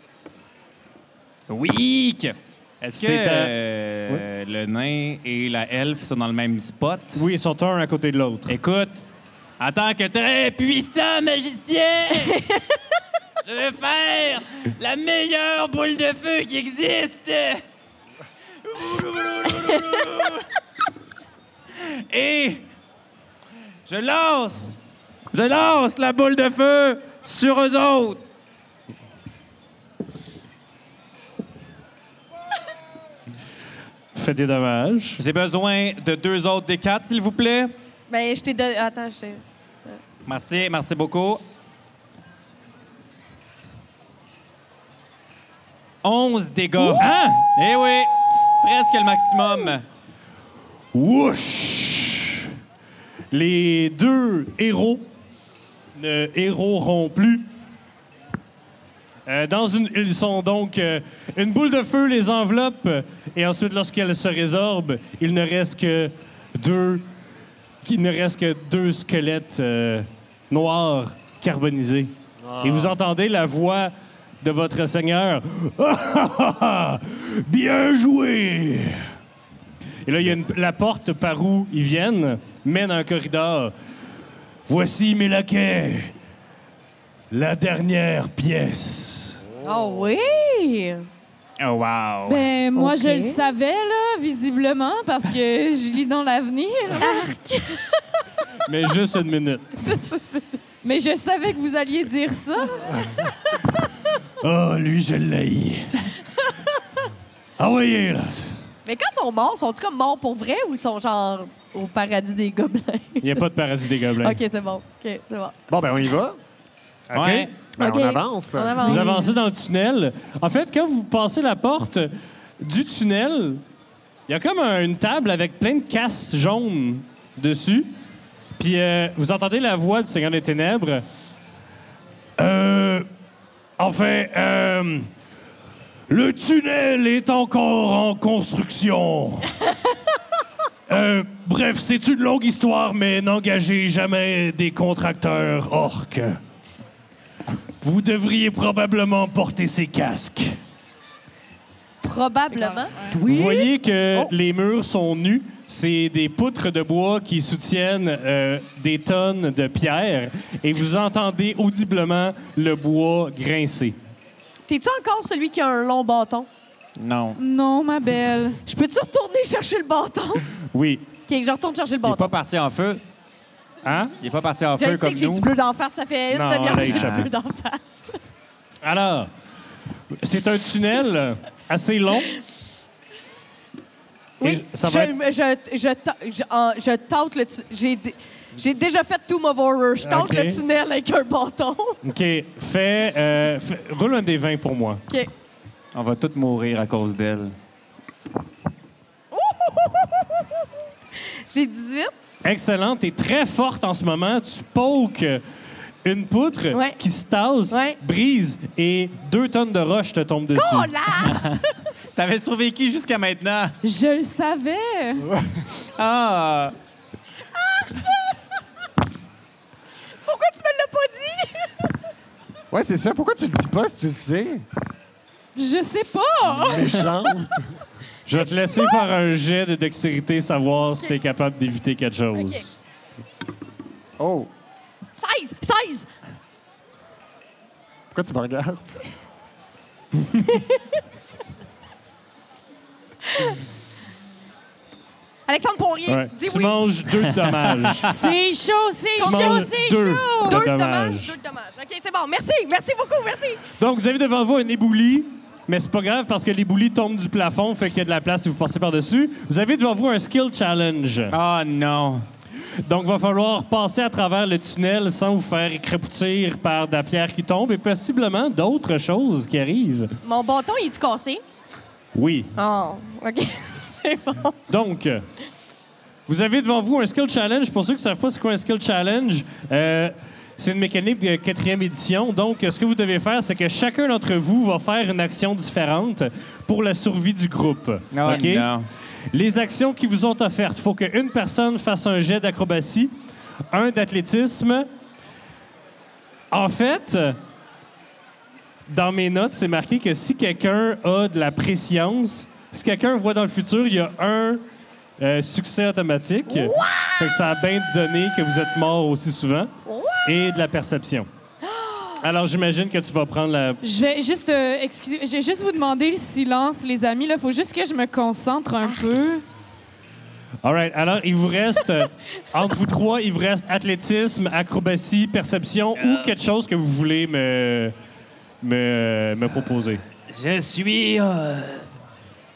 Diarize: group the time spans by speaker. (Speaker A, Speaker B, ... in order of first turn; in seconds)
Speaker A: 1.5-7.2, 8.5-9.0, 9.6-12.4, 13.4-17.6, 18.6-20.5, 21.7-22.6, 23.9-24.8, 25.3-28.2, 35.2-37.7, 40.2-41.4, 46.0-49.8, 91.6-92.5, 117.1-117.5, 166.9-167.4, 172.0-173.0, 174.2-175.5, 176.8-177.3, 195.9-197.5, 211.2-211.6, 212.1-213.8, 215.9-216.7, 247.8-248.2, 261.3-262.2, 288.1-288.9, 326.0-326.3, 330.3-331.8
Speaker B: 2.9-3.5, 7.2-8.6, 34.1-35.2, 47.0-47.5, 50.9-52.5, 53.3-55.1, 55.9-57.5, 59.2-67.0, 67.8-79.1, 80.0-83.7, 84.7-86.1, 87.3-89.4, 98.7-99.9, 104.4-106.1, 107.6-108.6, 113.2-114.4, 117.1-117.5, 118.8-123.6, 124.3-127.9, 128.6-131.0, 132.4-133.1, 133.8-135.1, 136.1-139.6, 140.9-146.4, 147.8-150.6, 153.1-163.9, 170.7-171.1, 173.8-174.1, 176.3-177.3, 178.8-179.3, 180.2-182.3, 184.4-185.1, 190.0-190.6, 192.0-195.0, 202.4-205.4, 206.0-210.9, 228.2-232.7, 246.1-248.1, 249.2-251.3, 253.8-261.4, 262.8-270.1, 272.1-272.6, 274.7-275.2, 276.3-288.7, 289.3-293.1, 293.7-294.9, 296.5-297.4, 298.9-304.6, 305.2-309.7, 310.2-311.3, 312.2-313.8, 320.6-327.9, 328.6-330.0
Speaker C: 12.2-12.6, 38.1-40.0, 89.6-91.0, 92.8-93.4, 97.0-98.0, 99.8-100.6, 108.8-113.5, 114.2-115.5, 117.8-119.4, 152.0-154.3, 164.7-166.5, 168.6-170.4, 171.3-172.3, 174.8-178.1, 184.4-192.0, 199.3-200.5, 201.5-202.1, 207.7-208.0, 210.5-211.7, 217.6-218.3, 220.2-221.7, 228.4-228.8, 232.3-232.6, 235.2-236.1, 240.5-240.8, 243.3-243.6, 245.5-246.8, 249.2-253.6, 270.2-271.4, 272.6-274.6, 306.5-307.4, 309.9-310.5, 311.6-312.2
Speaker D: 72.4-73.0, 89.5-90.1, 115.7-116.4, 117.8-119.0, 222.7-224.6, 226.5-227.8, 234.2-234.5, 238.1-239.0
Speaker E: 92.2-97.3, 100.8-103.0, 152.5-153.2, 167.3-168.6, 213.8-215.3, 225.6-226.9, 248.1-250.6, 313.8-319.4